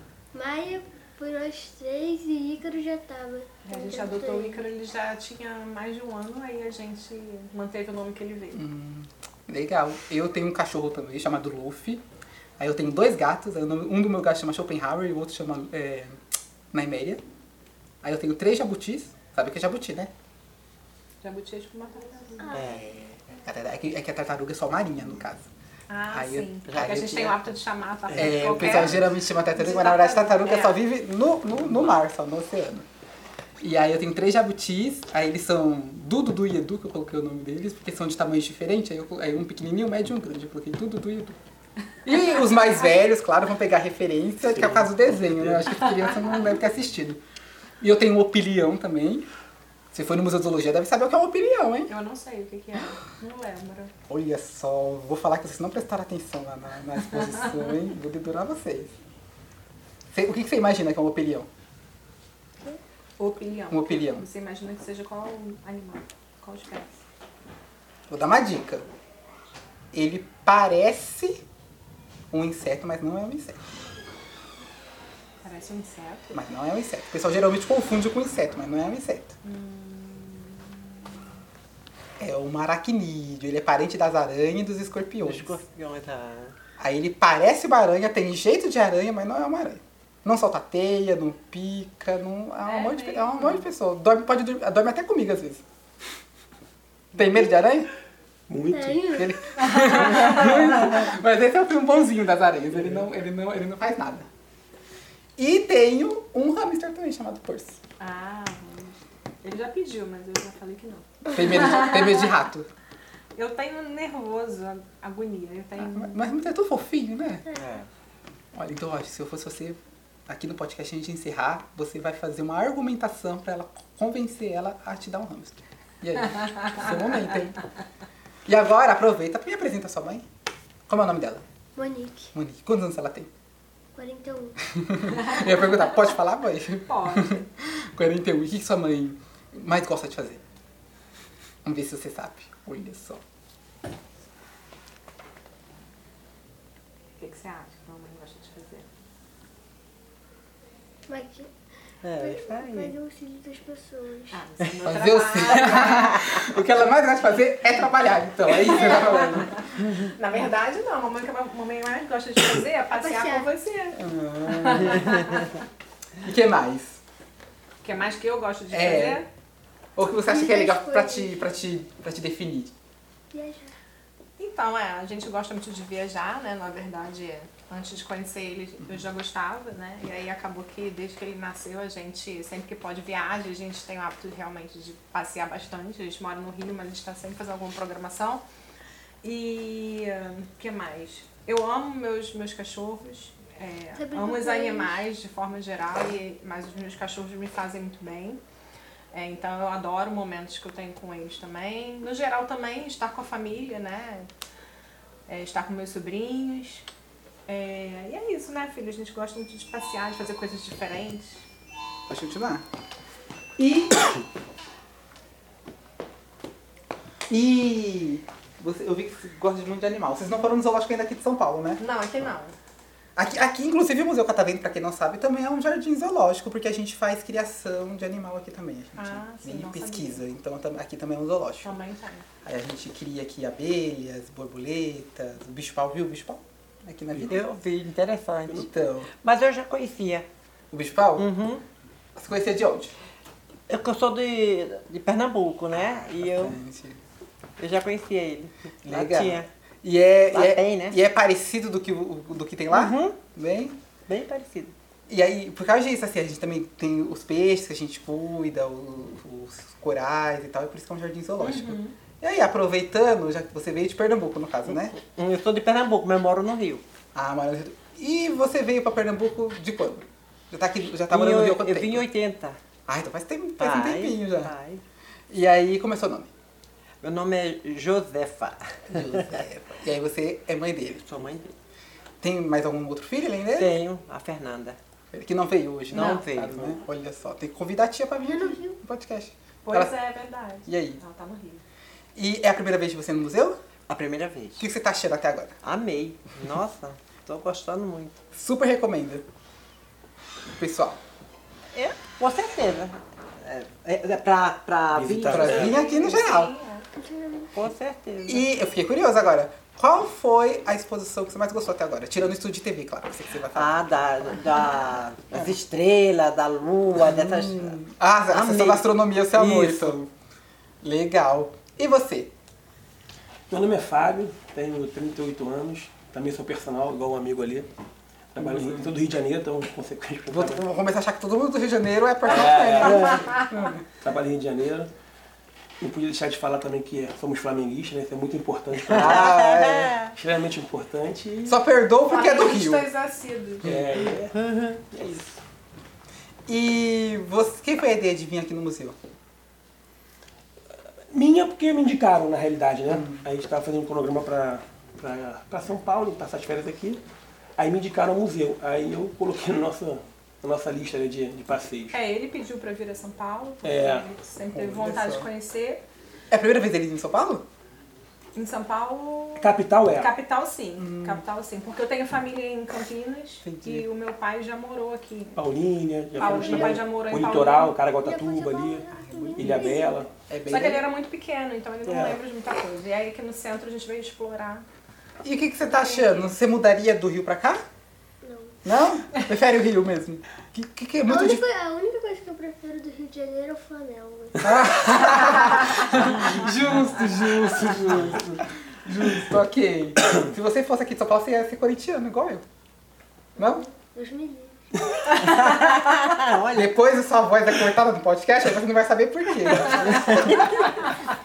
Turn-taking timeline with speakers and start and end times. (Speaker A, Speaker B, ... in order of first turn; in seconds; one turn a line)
Speaker A: 0.3-4.7
Speaker B: 3.7-8.6
Speaker C: 8.5-12.0
Speaker C: 12.6-16.2
Speaker C: 16.7-17.2
Speaker C: 18.0-20.1
Speaker B: 21.2-22.7
Speaker A: 22.5-22.8
Speaker D: 22.6-23.1
Speaker C: 23.4-25.5
Speaker B: 25.9-30.8
Speaker C: 26.1-27.4
Speaker D: 26.7-27.0
Speaker C: 28.1-32.9
Speaker D: 28.2-28.9
Speaker E: 28.2-28.7
Speaker C: 33.6-41.4
Speaker C: 42.0-47.2
Speaker B: 42.1-42.8
Speaker E: 44.5-46.0
Speaker C: 47.8-49.3
Speaker C: 49.9-51.9
Speaker B: 51.9-53.9
Speaker C: 54.1-58.9
Speaker C: 60.1-61.5
Speaker B: 63.2-67.0
Speaker C: 63.7-64.3
Speaker C: 68.1-68.9
Speaker C: 69.9-71.4
Speaker C: 72.3-73.6
Speaker B: 75.4-76.4
Speaker C: 76.3-79.3
Speaker B: 79.4-81.0
Speaker C: 82.2-85.6
Speaker D: 85.2-86.5
Speaker C: 86.8-95.6
Speaker B: 92.6-93.7
Speaker C: 97.2-97.9
Speaker E: 98.5-99.2
Speaker A: 98.7-99.4
Speaker C: 99.1-104.3
Speaker B: 99.7-100.5
Speaker C: 105.4-107.8
Speaker B: 108.0-112.2
Speaker C: 111.3-112.7
Speaker B: 113.3-116.4
Speaker C: 115.8-117.5
Speaker D: 117.6-117.9
Speaker C: 118.5-127.6
Speaker C: 128.5-130.2
Speaker C: 130.9-131.4
Speaker A: 131.8-132.3
Speaker C: 132.3-133.3
Speaker A: 133.9-134.6
Speaker C: 134.8-140.4
Speaker B: 136.9-137.4
Speaker C: 141.7-143.2
Speaker B: 147.2-148.9
Speaker A: 151.1-151.5
Speaker D: 152.0-153.0
Speaker A: 152.2-154.4
Speaker B: 154.3-156.2
Speaker C: 154.8-159.9
Speaker B: 158.5-165.6
Speaker A: 162.9-163.5
Speaker C: 164.0-165.1
Speaker C: 166.2-167.0
Speaker B: 167.8-169.3
Speaker C: 168.7-169.2
Speaker C: 170.0-172.7
Speaker A: 170.2-171.5
Speaker A: 173.3-173.8
Speaker B: 174.4-188.4
Speaker B: 189.2-198.4
Speaker A: 194.0-195.1
Speaker B: 199.1-204.3
Speaker B: 205.3-206.9
Speaker B: 207.5-211.4
Speaker C: 212.1-212.7
Speaker C: 213.6-214.2
Speaker C: 217.3-221.8
Speaker B: 221.8-222.6
Speaker C: 223.2-231.8
Speaker B: 229.0-230.2
Speaker B: 231.6-232.3
Speaker C: 232.4-237.4
Speaker D: 237.3-240.3
Speaker C: 238.5-239.1
Speaker C: 240.7-241.3
Speaker D: 241.2-241.6
Speaker C: 242.2-242.9
Speaker D: 243.7-246.6
Speaker C: 246.2-247.0
Speaker D: 247.6-249.5
Speaker C: 248.8-253.8
Speaker D: 250.3-251.0
Speaker D: 252.7-253.2
Speaker D: 254.1-254.7
Speaker C: 255.1-264.9
Speaker B: 261.4-261.9
Speaker D: 264.6-266.8
Speaker C: 267.1-272.1
Speaker D: 271.1-272.6
Speaker C: 272.9-274.5
Speaker D: 273.6-274.8
Speaker C: 275.3-276.3
Speaker D: 277.0-279.4
Speaker C: 278.9-281.0
Speaker D: 280.8-281.5
Speaker C: 282.2-283.8
Speaker D: 283.5-284.8
Speaker C: 285.1-289.9
Speaker D: 285.9-286.8
Speaker A: 288.3-288.8
Speaker B: 289.6-291.6
Speaker C: 290.7-291.0
Speaker C: 292.2-293.6
Speaker D: 293.9-294.7
Speaker C: 294.6-295.6
Speaker D: 295.6-298.2
Speaker C: 298.3-299.2
Speaker C: 300.6-301.0
Speaker D: 301.7-305.7
Speaker E: 304.9-305.8
Speaker C: 305.3-306.5
Speaker B: 305.5-306.9
Speaker A: 307.0-307.6
Speaker D: 307.5-308.5
Speaker C: 308.2-314.7
Speaker D: 313.5-320.0
Speaker C: 315.3-315.6
Speaker C: 316.9-320.1
Speaker C: 320.8-322.3
Speaker E: 323.5-327.7
Speaker E: 328.3-330.7
Speaker C: 328.4-328.9
Speaker C: 330.3-333.9
Speaker E: 332.2-333.5
Speaker E: 334.0-334.9
Speaker E: 335.8-339.4
Speaker C: 338.8-340.0
Speaker D: 338.9-340.1
Speaker E: 340.1-341.6
Speaker C: 341.4-342.9
Speaker B: 342.1-343.7
Speaker E: 343.6-344.4
Speaker D: 344.3-345.3
Speaker C: 346.5-349.0
Speaker E: 351.1-357.0
Speaker C: 352.9-353.2
Speaker E: 357.6-362.0
Speaker B: 361.9-365.8
Speaker E: 363.6-364.1
Speaker C: 364.5-365.3
Speaker C: 366.3-367.4
Speaker B: 368.4-375.4
Speaker E: 369.4-370.1
Speaker C: 370.8-371.2
Speaker C: 373.4-373.9
Speaker E: 375.4-380.1
Speaker B: 376.2-377.8
Speaker A: 376.2-376.8
Speaker A: 378.0-380.1
Speaker C: 380.3-380.9
Speaker B: 380.5-384.6
Speaker E: 381.9-382.2
Speaker C: 385.2-387.6
Speaker B: 385.7-386.3
Speaker A: 388.2-388.6
Speaker C: 388.6-391.4
Speaker A: 391.1-395.8
Speaker C: 394.4-402.4
Speaker C: 403.4-403.6
Speaker A: 403.4-404.7
Speaker D: 405.2-406.7
Speaker B: 405.2-405.7
Speaker C: 406.5-410.9
Speaker D: 409.7-410.5